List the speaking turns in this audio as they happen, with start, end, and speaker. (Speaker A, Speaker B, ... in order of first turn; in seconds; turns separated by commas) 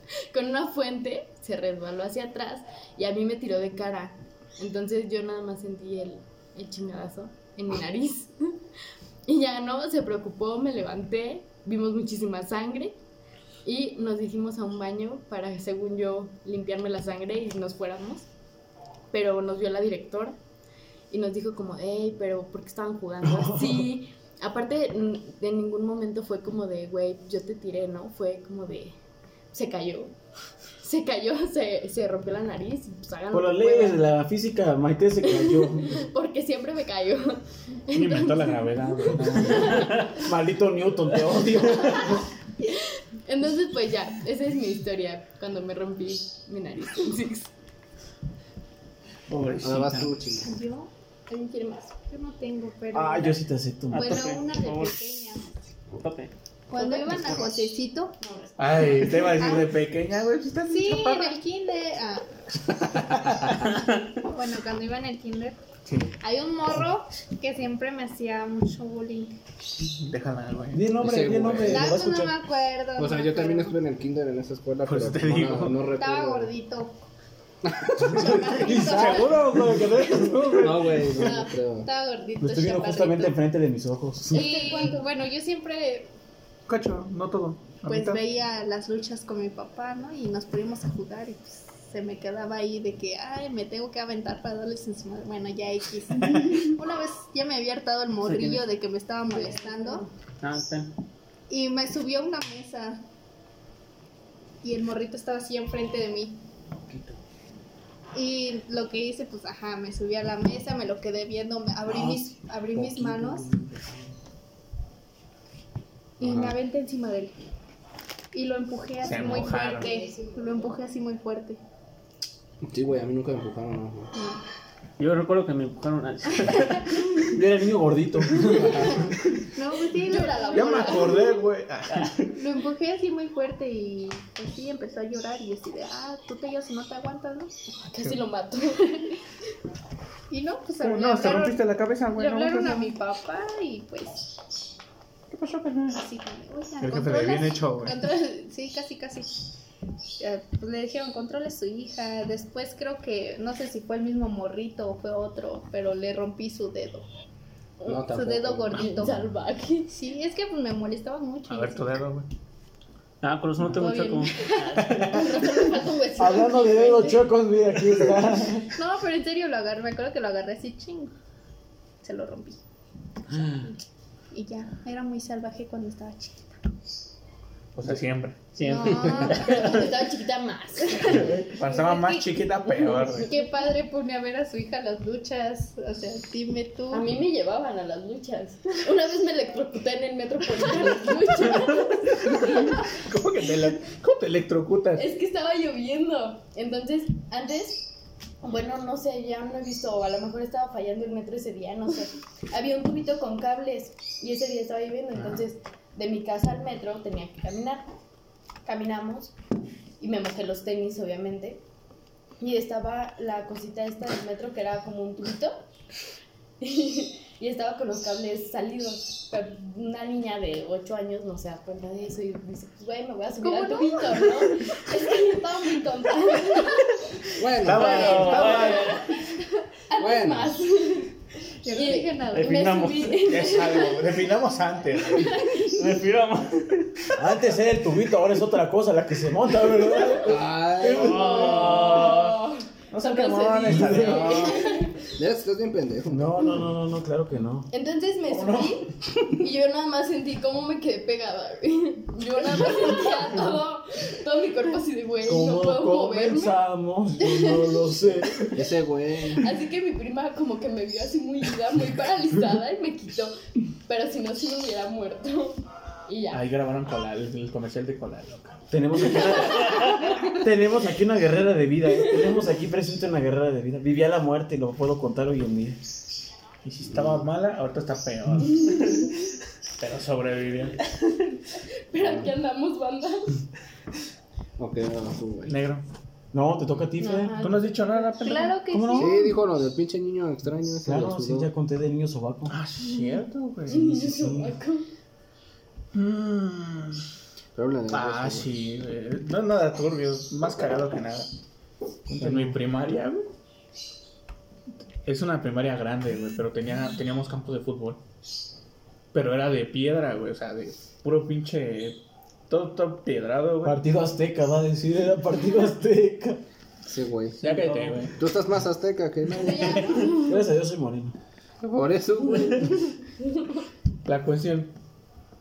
Speaker A: 0.3-8.5, Speaker A: 9.3-13.0, Speaker A: 13.6-18.3, Speaker A: 19.1-20.4, Speaker A: 21.1-28.9, Speaker B: 23.3-23.9, Speaker A: 29.5-30.1, Speaker A: 30.8-34.0, Speaker B: 33.3-36.0, Speaker A: 35.3-39.9, Speaker C: 37.9-40.1, Speaker D: 39.8-40.0, Speaker B: 40.1-42.2, Speaker A: 42.6-47.5, Speaker C: 49.3-50.1, Speaker E: 49.6-50.6, Speaker F: 50.4-50.9, Speaker A: 51.3-51.9, Speaker F: 52.0-53.4, Speaker B: 52.9-54.3, Speaker D: 53.9-55.0, Speaker F: 54.0-55.5, Speaker D: 56.0-56.3, Speaker F: 56.7-59.7, Speaker A: 56.8-57.4, Speaker C: 58.6-61.4, Speaker F: 60.7-62.3, Speaker C: 62.9-63.6, Speaker D: 63.7-64.0, Speaker F: 64.2-65.6, Speaker C: 65.9-66.2, Speaker F: 66.2-69.3, Speaker C: 69.8-71.8, Speaker B: 70.7-72.4, Speaker E: 71.0-71.9, Speaker F: 71.6-73.8, Speaker E: 73.0-76.5, Speaker C: 74.9-75.9, Speaker F: 75.8-77.0, Speaker E: 77.7-78.5, Speaker B: 78.2-81.0, Speaker F: 78.2-79.4, Speaker C: 78.6-81.3, Speaker E: 80.5-81.9, Speaker F: 81.2-83.4, Speaker B: 82.4-84.9, Speaker F: 84.3-86.1, Speaker C: 86.7-88.2, Speaker F: 87.9-100.1, Speaker C: 96.2-96.8, Speaker D: 98.2-98.6, Speaker A: 99.3-100.0, Speaker D: 100.4-100.9, Speaker F: 101.5-103.0, Speaker F: 104.6-106.4, Speaker F: 108.1-113.5, Speaker E: 116.2-116.6, Speaker F: 116.2-117.4, Speaker F: 118.3-121.6, Speaker C: 119.0-119.9, Speaker A: 119.3-120.2, Speaker E: 122.7-124.1, Speaker F: 124.1-124.4, Speaker D: 125.0-127.0, Speaker B: 127.3-129.1, Speaker F: 129.6-131.5, Speaker A: 130.0-131.2, Speaker C: 130.5-132.3, Speaker D: 131.9-132.2, Speaker F: 132.3-137.6, Speaker A: 137.7-139.1, Speaker F: 140.3-144.3, Speaker C: 140.8-142.9, Speaker C: 145.3-146.0, Speaker F: 145.9-149.3, Speaker C: 146.8-148.0, Speaker F: 150.2-157.1, Speaker E: 157.9-159.1, Speaker F: 158.0-159.2, Speaker A: 158.8-159.9, Speaker F: 159.9-162.0, Speaker C: 161.5-162.3, Speaker D: 163.2-165.4, Speaker F: 163.8-164.8, Speaker C: 164.8-165.2, Speaker A: 165.0-167.3, Speaker B: 166.2-168.7, Speaker F: 168.8-171.1, Speaker F: 172.0-172.6, Speaker B: 173.3-173.6, Speaker F: 174.3-176.5, Speaker C: 177.8-178.4, Speaker D: 178.5-179.9, Speaker F: 178.6-179.8, Speaker A: 179.1-181.4, Speaker D: 181.1-181.4, Speaker C: 181.5-183.3, Speaker F: 181.6-182.5, Speaker A: 182.8-183.3, Speaker F: 183.2-187.1, Speaker A: 186.9-192.8, Speaker C: 192.3-195.1, Speaker A: 195.0-197.9, Speaker A: 198.4-207.9, Speaker C: 205.1-205.4, Speaker A: 208.7-209.3, Speaker A: 210.0-211.6, Speaker A: 212.4-215.6, Speaker A: 216.6-226.9, Speaker F: 223.4-224.5, Speaker E: 227.4-228.2, Speaker C: 227.6-229.0, Speaker D: 227.7-229.2, Speaker A: 227.9-229.0, Speaker A: 229.9-231.1, Speaker E: 230.0-230.6, Speaker F: 231.6-232.6, Speaker A: 231.7-234.2, Speaker D: 232.3-233.2, Speaker C: 233.2-235.4, Speaker A: 235.1-235.8, Speaker D: 235.6-236.9, Speaker B: 237.2-241.9, Speaker E: 240.2-241.6, Speaker A: 240.8-245.0, Speaker D: 240.9-242.4, Speaker C: 242.9-244.8, Speaker B: 243.7-244.4, Speaker E: 245.2-246.4, Speaker B: 246.1-247.7, Speaker A: 247.7-256.6, Speaker C: 248.3-248.9, Speaker B: 255.3-258.6, Speaker A: 257.2-257.7, Speaker E: 258.5-259.5, Speaker A: 259.4-266.5, Speaker C: 266.3-268.6, Speaker B: 268.7-275.8, Speaker C: 276.6-279.1, Speaker C: 279.8-280.8, Speaker A: 281.9-283.3, Speaker E: 282.0-282.3, Speaker E: 284.6-285.6, Speaker C: 285.5-285.8, Speaker B: 286.3-287.4, Speaker A: 287.0-288.0, Speaker C: 287.4-288.7, Speaker F: 288.2-289.4, Speaker B: 288.7-289.1, Speaker E: 288.9-291.5, Speaker B: 290.9-292.6, Speaker C: 292.5-293.9, Speaker A: 293.7-294.9, Speaker B: 293.7-294.6, Speaker C: 295.9-297.0, Speaker E: 297.6-298.5, Speaker C: 297.9-301.3, Speaker B: 302.1-302.6, Speaker C: 302.2-303.3, Speaker C: 305.1-308.0, Speaker C: 309.1-312.0, Speaker C: 312.5-313.8, Speaker B: 313.6-316.4, Speaker E: 316.9-317.4, Speaker C: 317.4-318.2, Speaker D: 317.5-317.9, Speaker E: 318.2-320.0, Speaker A: 319.4-320.4, Speaker C: 319.5-320.1, Speaker B: 320.1-321.1, Speaker E: 321.6-322.8, Speaker C: 324.1-324.7